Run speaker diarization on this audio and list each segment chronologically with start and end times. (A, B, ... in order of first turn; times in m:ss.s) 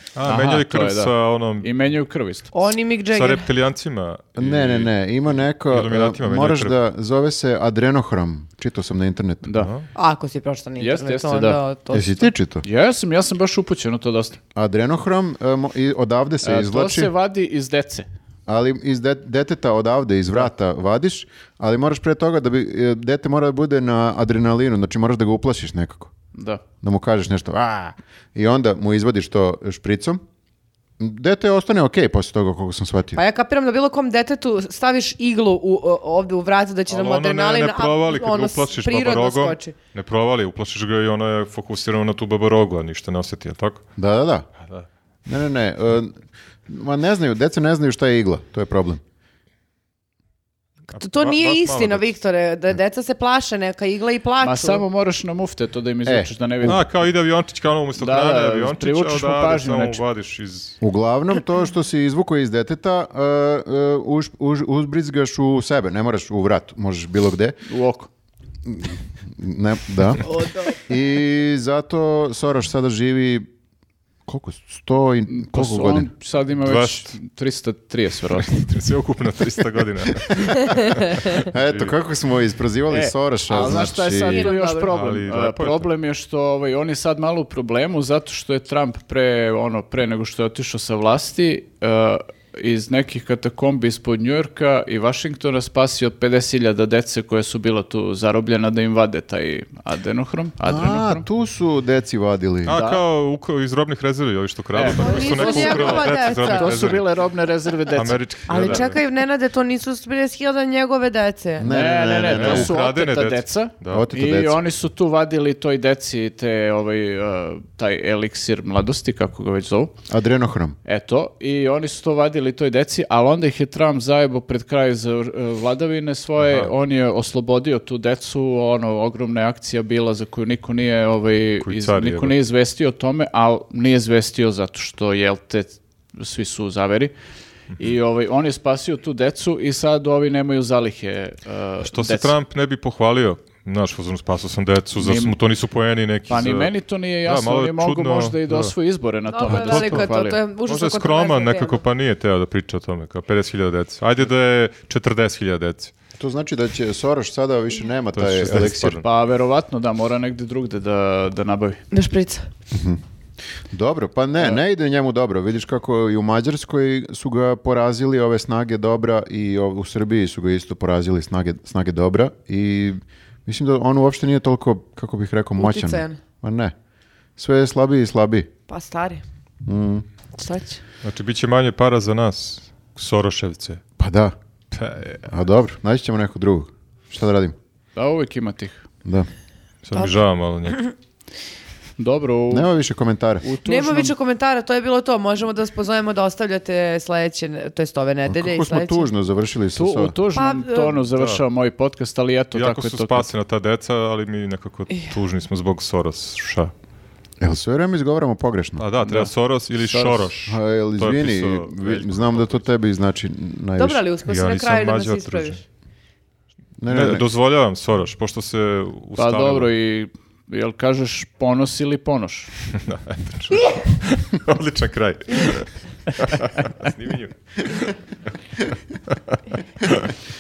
0:00.2-0:01.7 A
0:00.3-0:02.5 B
0:02.5-0:03.5 C
0:03.1-0:04.9 A
0:04.4-0:09.6 D
0:05.5-0:06.8 A
0:09.4-0:09.7 B
0:09.6-0:09.9 A
0:10.0-0:12.3 C
0:10.8-0:11.6 B
0:11.9-0:12.6 D
0:12.6-0:14.4 B
0:14.6-0:17.1 D
0:16.4-0:18.1 B
0:18.5-0:26.1 D
0:26.3-0:26.6 B
0:26.8-0:30.2 D
0:31.0-0:33.2 D
0:33.2-0:39.8 C
0:36.9-0:43.8 A
0:44.0-0:44.5 D
0:45.3-0:49.0 D
0:50.9-0:52.1 A
0:51.0-0:54.8 C
0:54.4-0:56.9 B
0:56.0-0:56.8 D
0:56.6-1:00.8 A
0:58.0-1:00.0 B
1:00.8-1:07.6 D
1:07.7-1:08.1 B
1:08.7-1:10.3 D
1:10.2-1:10.8 C
1:10.9-1:13.5 D
1:14.3-1:16.1 D
1:15.3-1:18.7 B
1:16.6-1:17.2 A
1:18.4-1:21.9 A
1:20.7-1:21.3 C
1:21.4-1:24.5 D
1:22.9-1:41.2 B
1:23.6-1:24.9 C
1:24.9-1:25.9 A
1:40.7-1:42.8 D
1:42.7-1:47.2 A
1:42.7-1:43.0 B
1:44.7-1:48.9 B
1:44.9-1:46.9 C
1:47.8-1:49.0 A
1:48.5-1:51.7 C
1:51.6-1:52.8 D
1:51.6-2:00.0 B
1:52.3-1:54.1 A
1:53.9-1:54.6 D
2:00.1-2:00.8 D
2:00.8-2:17.1 B
2:06.4-2:06.7 A
2:11.6-2:12.4 A
2:17.8-2:22.3 B
2:21.8-2:26.7 A
2:25.0-2:25.4 B
2:26.3-2:30.4 B
2:27.2-2:28.7 A
2:29.3-2:31.8 C
2:29.5-2:30.1 A
2:30.6-2:35.9 A
2:36.2-2:39.0 D
2:38.1-2:39.0 A
2:39.0-2:41.8 B
2:41.9-2:42.5 C
2:42.7-2:43.0 D
2:43.7-2:56.7 D
2:55.6-2:56.2 C
2:57.4-2:58.5 D
2:58.7-2:59.2 C
2:59.6-3:00.0 D
3:00.4-3:00.8 C
3:01.0-3:03.8 A
3:04.0-3:04.4 D
3:04.7-3:05.2 A
3:05.3-3:07.6 D
3:08.0-3:08.8 B
3:09.8-3:10.9 A
3:12.0-3:12.7 B
3:12.5-3:13.4 D
3:13.4-3:14.1 B
3:13.6-3:19.1 C
3:18.3-3:20.2 D
3:19.8-3:23.3 B
3:20.4-3:21.0 C
3:21.1-3:21.4 A
3:22.5-3:26.7 A
3:27.4-3:28.8 D
3:28.8-3:32.6 A
3:29.0-3:29.3 B
3:29.8-3:30.5 B
3:30.5-3:34.0 D
3:33.8-3:35.6 C
3:34.2-3:35.6 A
3:36.8-3:37.3 D
3:36.9-3:39.7 A
3:39.2-3:42.6 B
3:42.7-3:48.0 A
3:48.6-3:50.1 A